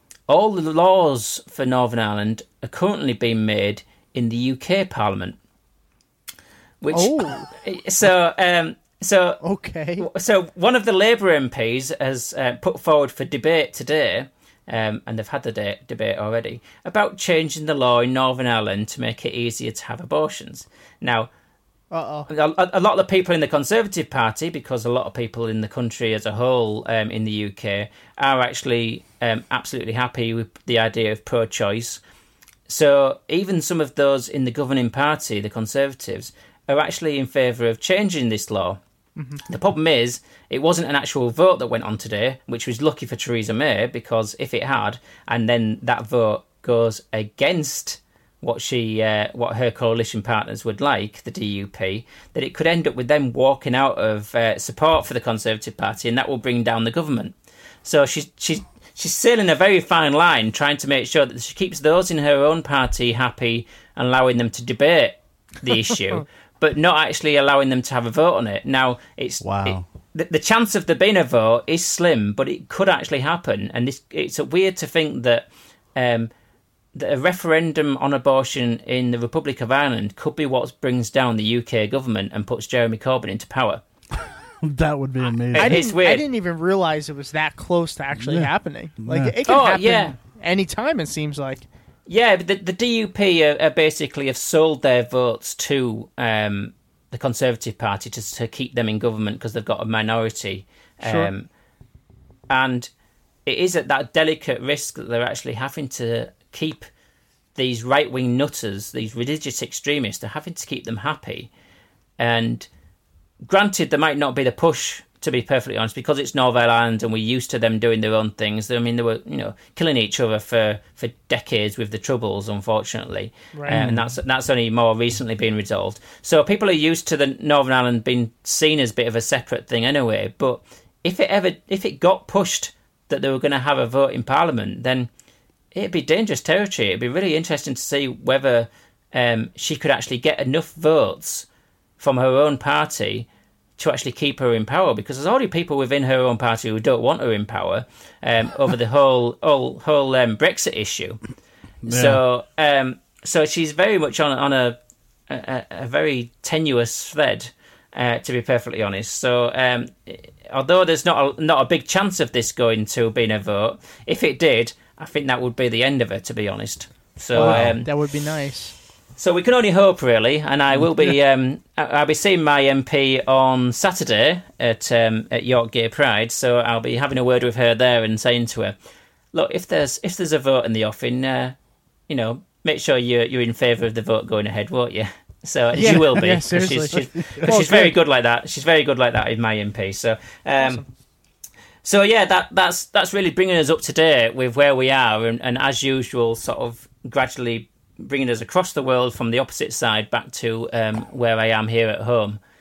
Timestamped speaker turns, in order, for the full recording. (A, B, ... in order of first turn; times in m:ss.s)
0:00.3-0:05.4 A
0:06.8-0:09.4 A
0:06.9-0:07.5 B
0:09.4-0:10.1 B
0:10.0-0:21.3 A
0:21.9-0:22.3 B
0:22.3-0:32.0 A
0:32.7-0:38.8 A
0:39.2-0:39.4 B
0:39.5-1:16.3 A
1:09.4-1:09.8 C
1:17.0-1:23.8 A
1:24.6-1:25.9 C
1:25.5-1:26.2 A
1:25.6-1:31.7 B
1:28.2-1:29.4 C
1:29.4-1:30.2 A
1:32.1-1:41.5 A
1:41.0-1:41.3 B
1:42.5-1:42.9 A
1:43.5-1:46.9 A
1:47.6-1:51.5 A
1:52.2-1:52.7 A
1:53.4-2:15.1 A
2:03.5-2:04.0 B
2:03.7-2:04.0 C
2:15.7-2:21.5 A
2:22.0-2:31.2 A
2:31.8-2:32.2 C
2:31.8-2:34.8 A
2:35.3-2:47.9 A
2:47.3-2:48.8 B
2:47.4-2:47.8 C
2:49.2-2:58.8 A
2:59.3-3:01.6 A
3:02.1-3:10.8 A
3:05.7-3:08.0 B
3:05.8-3:06.1 C
3:10.6-3:10.9 B
3:11.8-3:22.4 A